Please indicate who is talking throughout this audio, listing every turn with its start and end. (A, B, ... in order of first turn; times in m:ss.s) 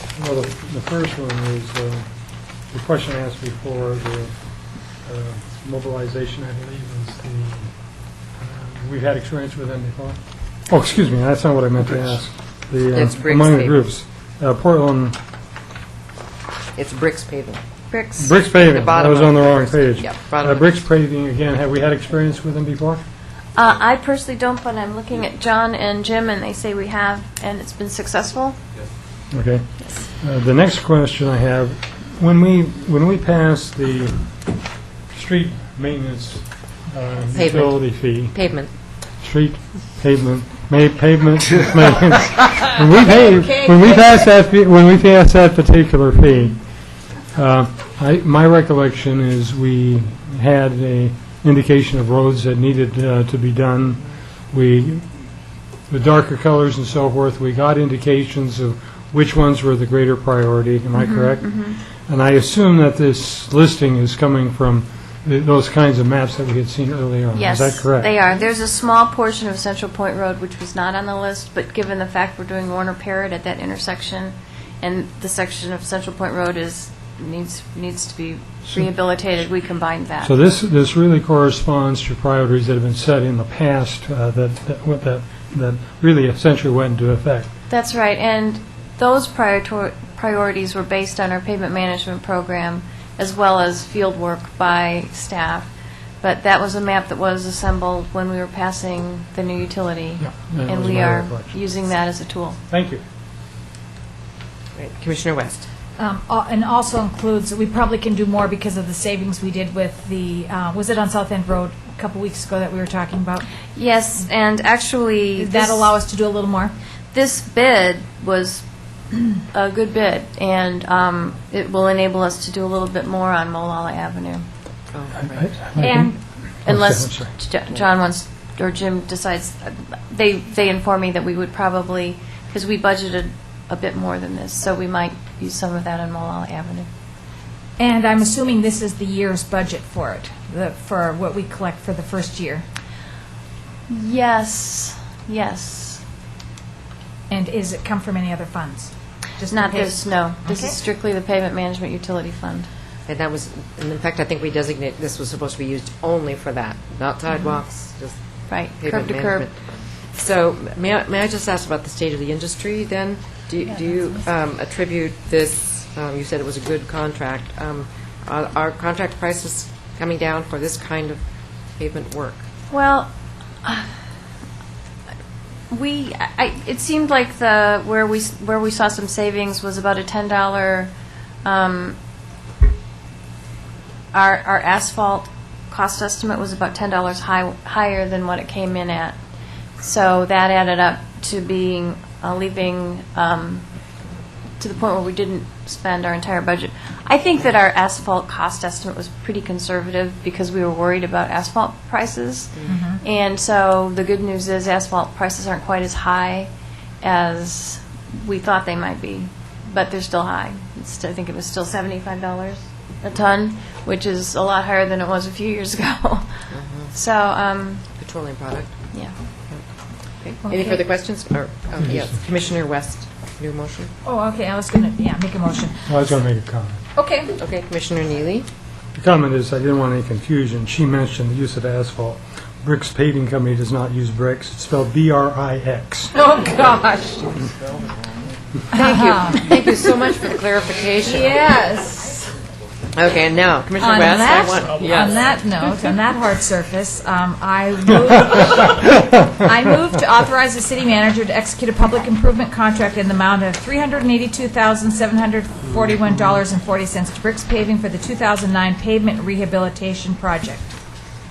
0:00.2-0:02.1 A
0:02.7-0:04.3 A
0:05.0-0:07.7 A
0:08.4-0:10.2 A
0:10.7-0:15.2 A
0:12.9-0:13.8 B
0:16.8-0:17.6 B
0:17.9-0:18.3 C
0:18.2-0:23.0 A
0:18.6-0:20.8 B
0:23.6-0:28.6 C
0:29.3-0:34.3 A
0:35.1-0:38.4 A
0:37.4-0:38.7 B
0:39.2-0:46.6 A
0:43.0-0:44.3 D
0:47.3-0:55.3 A
0:55.9-1:08.1 A
1:01.0-1:01.8 C
1:07.3-1:20.4 C
1:20.2-1:27.5 A
1:27.7-1:35.7 C
1:36.2-1:42.6 C
1:40.2-1:41.6 A
1:42.7-1:43.0 A
1:44.8-1:45.7 B
1:46.0-1:53.5 D
1:53.8-1:56.0 C
1:55.4-1:56.7 D
1:57.1-2:04.4 C
2:04.9-2:05.6 B
2:05.2-2:07.3 A
2:05.8-2:06.2 D
2:06.6-2:16.9 C
2:17.8-2:22.6 D
2:23.9-2:26.0 C
2:27.3-2:30.8 D
2:29.4-2:32.7 C
2:33.1-2:38.2 B
2:38.5-2:39.5 C
2:38.8-2:39.6 B
2:40.1-2:51.2 B
2:51.8-2:52.4 B
2:52.7-2:53.1 C
2:53.6-2:53.9 C
2:55.7-3:00.9 C
3:01.4-3:02.0 C
3:04.1-3:09.2 C
3:09.8-3:13.7 C
3:14.6-3:26.5 C
3:22.7-3:23.0 D
3:27.0-3:36.3 C
3:36.5-3:36.9 B
3:36.9-3:37.9 C
3:38.0-3:38.8 B
3:40.2-3:43.9 B
3:40.4-3:40.8 D
3:41.8-3:42.2 A
3:44.0-3:45.9 D
3:45.9-3:46.8 A
3:47.0-3:47.3 D
3:47.4-3:48.5 B
3:49.0-3:56.2 A
3:56.1-3:57.5 D
3:58.7-4:01.3 B
3:58.7-3:59.5 D
4:01.0-4:02.3 D
4:03.0-4:05.2 B
4:03.8-4:20.7 D